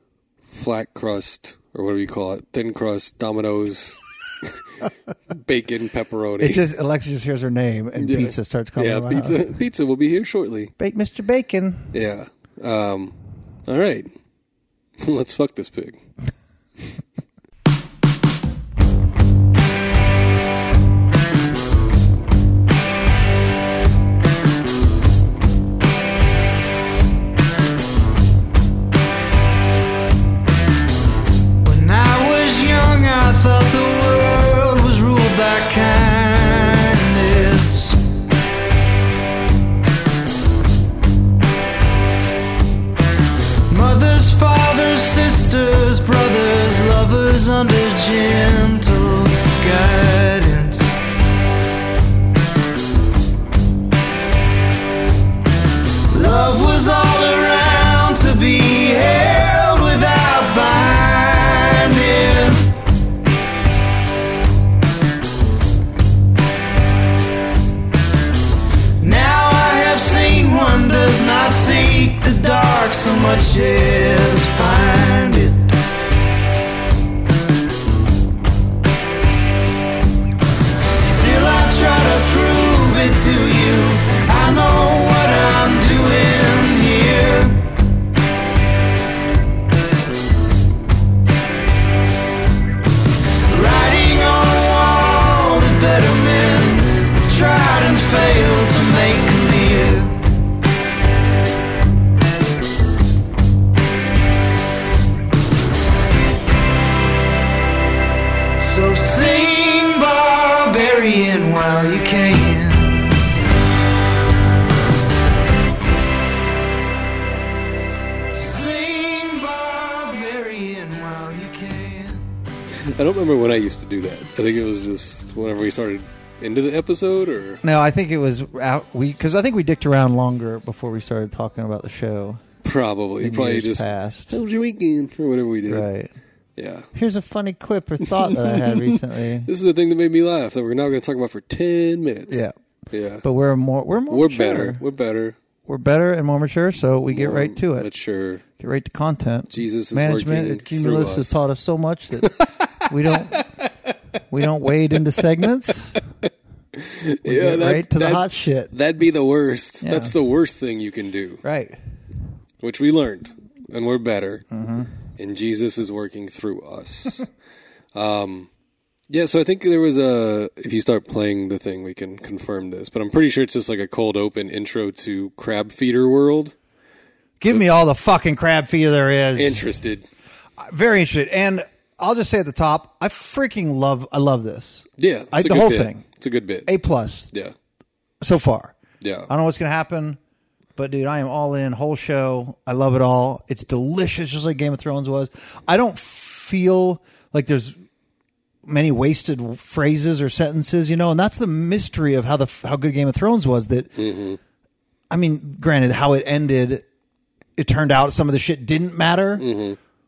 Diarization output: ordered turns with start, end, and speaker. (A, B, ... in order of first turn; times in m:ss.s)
0:00.5-0:04.5 A
0:05.3-0:06.6 A
0:06.4-0:09.4 B
0:08.0-0:10.7 A
0:10.8-0:11.9 B
0:11.9-0:13.2 A
0:13.7-0:14.1 A
0:15.0-0:16.0 A
0:31.6-0:38.0 C
0:43.7-0:51.0 C
0:56.1-1:02.7 C
1:09.0-1:15.7 C
1:21.0-1:27.6 C
1:33.5-1:40.2 C
1:48.6-1:53.1 C
1:58.3-2:02.2 C
2:02.8-2:07.6 A
2:07.6-2:12.4 B
2:12.6-2:15.9 A
2:13.2-2:14.4 B
2:15.7-2:16.1 B
2:16.6-2:16.9 A
2:16.9-2:19.5 B
2:18.1-2:23.2 A
2:22.3-2:22.5 B
2:23.2-2:24.8 B
2:24.1-2:25.4 A
2:25.7-2:27.9 B
2:27.1-2:28.4 A
2:28.6-2:33.5 B
2:29.5-2:31.5 A
2:32.2-2:33.9 A
2:34.3-2:36.0 B
2:36.7-2:41.4 A
2:37.2-2:38.7 B
2:39.8-2:40.1 B
2:41.4-2:41.8 B
2:42.6-2:44.5 A
2:44.5-2:44.9 B
2:45.2-2:47.3 A
2:47.9-2:48.5 A
2:49.1-2:56.5 A
2:57.4-2:59.6 B
2:59.4-3:00.1 A
3:00.6-3:06.0 B
3:05.0-3:06.7 A
3:06.7-3:07.3 B
3:08.2-3:08.8 B
3:09.0-3:09.3 A
3:09.3-3:10.2 B
3:10.8-3:17.8 B
3:18.7-3:24.0 B
3:24.0-3:24.4 A
3:25.1-3:26.8 B
3:27.6-3:29.4 B
3:29.4-3:29.8 A